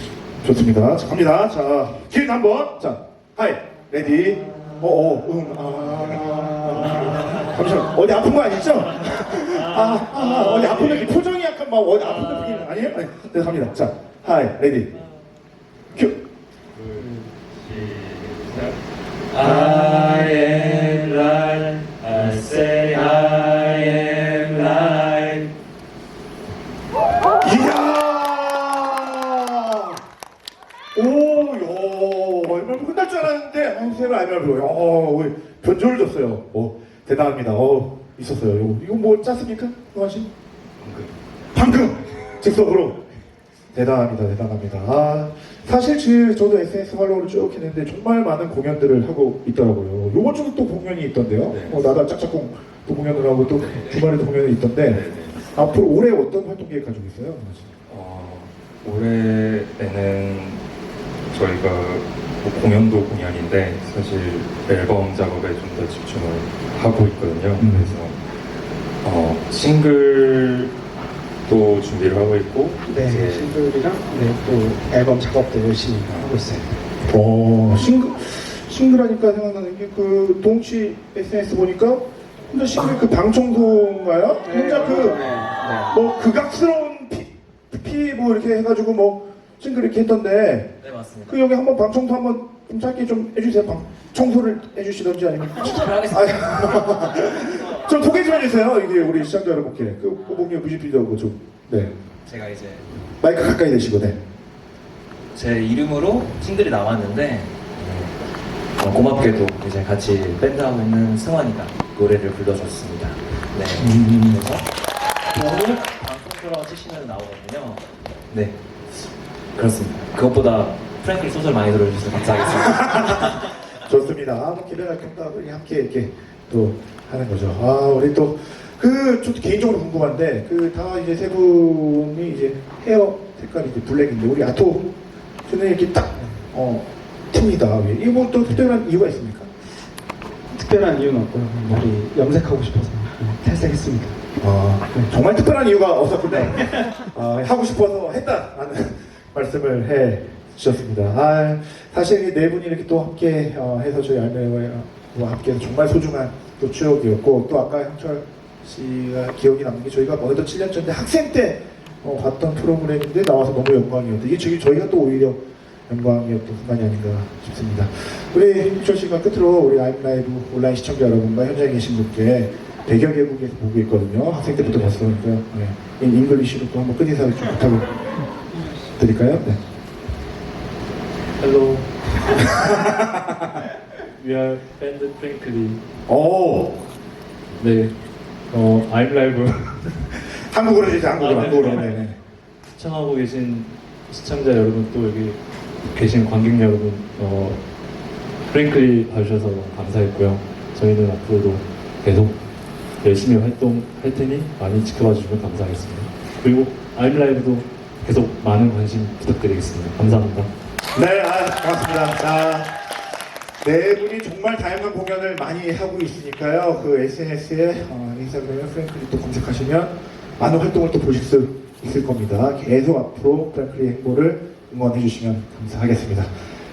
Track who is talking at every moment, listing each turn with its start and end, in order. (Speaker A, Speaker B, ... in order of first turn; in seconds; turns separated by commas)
Speaker A: 0.4-14.9, Speaker B: 16.7-18.8, Speaker B: 19.3-25.3, Speaker A: 27.4-30.0, Speaker A: 30.9-40.3, Speaker B: 40.8-41.1, Speaker A: 41.5-43.0, Speaker A: 43.7-57.7, Speaker B: 51.5-51.8, Speaker B: 53.5-54.1, Speaker B: 54.9-55.8, Speaker B: 57.9-60.6, Speaker B: 61.3-68.2, Speaker A: 67.6-67.9, Speaker B: 69.0-70.7, Speaker B: 71.5-73.5, Speaker C: 72.9-76.7, Speaker B: 76.1-76.3, Speaker A: 77.1-85.2, Speaker C: 84.4-85.9, Speaker A: 85.8-90.8, Speaker D: 90.8-91.4, Speaker A: 91.3-101.9, Speaker D: 95.6-98.0, Speaker D: 100.1-100.5, Speaker D: 102.2-102.9, Speaker A: 103.2-104.2, Speaker D: 105.3-108.1, Speaker D: 108.8-114.7, Speaker A: 113.8-114.4, Speaker D: 115.3-118.5, Speaker D: 119.5-123.1, Speaker A: 122.6-134.9, Speaker A: 135.5-139.5, Speaker C: 140.5-144.2, Speaker A: 144.4-178.0, Speaker E: 174.6-175.0, Speaker A: 179.0-179.6, Speaker E: 181.4-182.6, Speaker A: 182.6-183.5, Speaker E: 184.1-185.8, Speaker A: 186.1-186.8, Speaker E: 187.6-187.9, Speaker E: 188.5-190.1, Speaker A: 190.3-192.2, Speaker E: 191.2-191.9, Speaker E: 192.7-197.6, Speaker E: 198.5-202.3, Speaker E: 203.0-210.5, Speaker A: 210.9-212.9, Speaker A: 213.6-226.3